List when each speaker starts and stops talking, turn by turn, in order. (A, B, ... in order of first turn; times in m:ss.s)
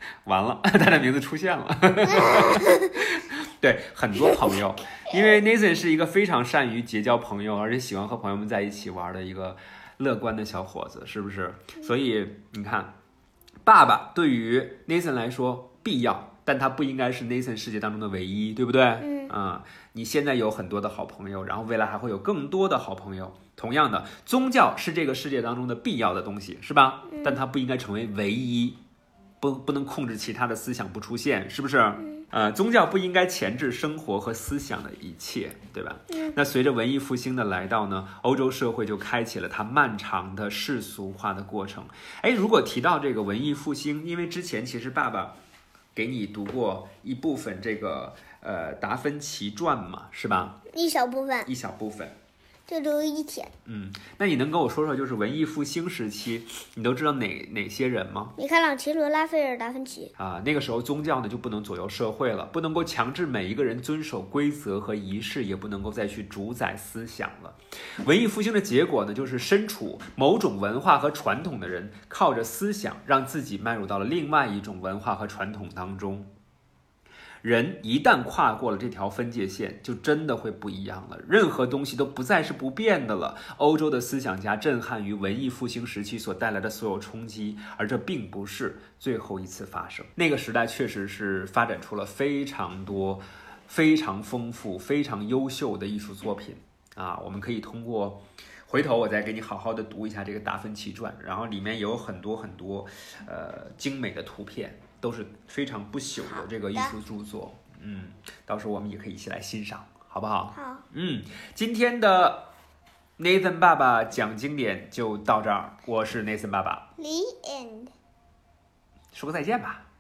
0:00.2-0:12.9 A
0:02.1-0:03.0 B
0:13.6-0:28.8 A
0:19.0-0:19.3 B
0:27.1-0:27.4 B
0:29.4-0:45.4 A
0:46.0-0:50.6 A
0:50.7-0:51.5 B
0:51.5-0:52.2 A
0:52.7-0:53.5 B
0:53.7-0:58.4 A
0:58.4-1:00.1 B
1:00.2-1:16.3 A
1:17.4-1:52.5 A
1:46.2-1:47.0 B
1:50.5-1:50.8 B
1:53.2-1:56.9 A
1:57.0-1:57.9 B
1:59.1-1:59.8 A